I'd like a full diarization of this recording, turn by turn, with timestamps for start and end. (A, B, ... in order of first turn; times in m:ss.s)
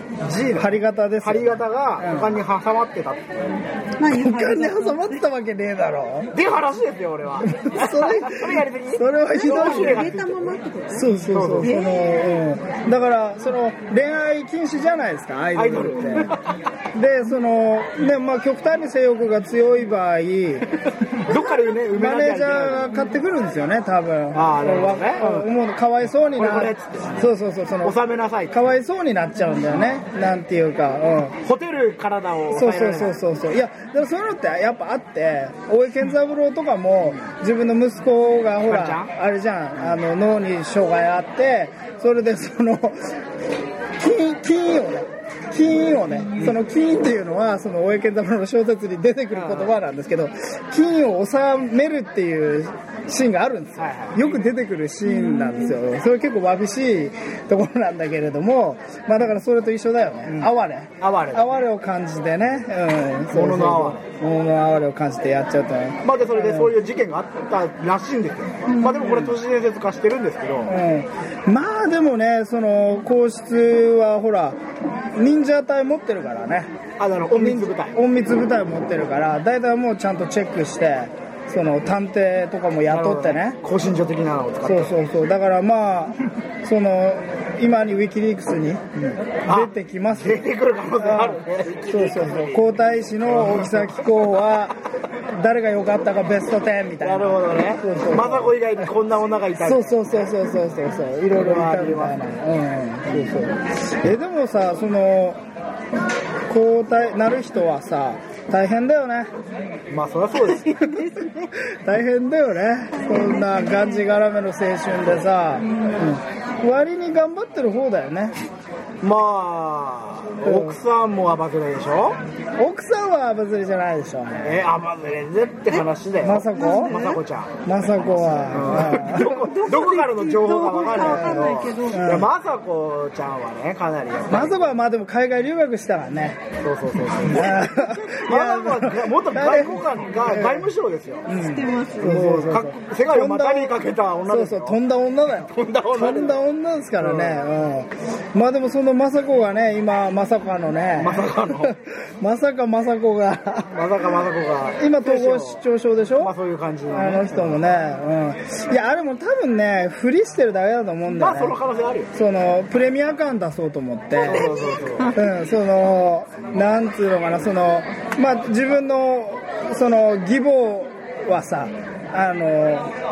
0:00.2-0:03.4 A
0:00.5-0:02.4 B
0:04.0-0:05.2 C
0:04.0-0:06.3 B
0:06.3-0:10.6 A
0:07.4-0:10.1 B
0:09.4-0:11.1 C
0:10.9-0:16.4 B
0:11.3-0:11.7 A
0:11.6-0:12.4 C
0:15.5-0:16.4 A
0:16.9-0:20.7 B
0:21.1-0:22.9 A
0:21.9-0:28.0 B
0:24.3-0:25.5 A
0:26.4-0:27.2 A
0:27.8-0:28.6 A
0:28.5-0:31.4 B
0:31.4-0:33.2 A
0:32.5-0:43.2 B
0:38.7-0:39.1 A
0:44.0-1:06.7 B
0:49.3-0:49.7 A
0:53.8-0:54.2 A
0:55.1-0:55.7 C
1:00.3-1:01.5 A
1:03.3-1:04.0 A
1:06.0-1:10.7 A
1:08.7-1:09.2 C
1:10.6-1:14.6 B
1:15.1-1:16.7 B
1:17.0-1:18.0 A
1:17.3-1:23.6 B
1:22.9-1:24.9 A
1:24.6-1:28.8 B
1:29.0-1:32.7 A
1:29.5-1:34.8 B
1:33.2-1:34.0 A
1:35.3-1:38.8 B
1:37.0-1:40.1 A
1:39.6-1:45.4 B
1:41.3-1:42.2 A
1:46.5-1:49.3 B
1:49.9-1:50.9 A
1:50.5-1:51.5 C
1:50.7-1:58.4 B
1:53.0-1:54.0 C
1:59.0-2:02.2 A
2:00.4-2:00.8 B
2:02.6-2:04.6 B
2:04.4-2:07.6 A
2:06.2-2:07.0 B
2:06.5-2:07.2 C
2:07.6-2:09.4 B
2:08.5-2:14.7 A
2:09.1-2:12.1 C
2:11.1-2:12.3 B
2:14.3-2:16.4 B
2:16.6-2:21.3 A
2:17.2-2:20.7 B
2:21.3-2:33.8 B
2:21.3-2:22.2 C
2:22.0-2:24.8 A
2:25.5-2:26.4 A
2:27.0-2:27.4 A
2:31.0-2:31.7 A
2:33.7-2:35.6 A
2:34.8-2:36.3 B
2:36.2-2:37.6 A
2:36.9-2:41.6 B
2:41.1-2:42.1 A
2:42.1-2:44.5 B
2:44.2-2:45.2 A
2:45.1-2:52.9 B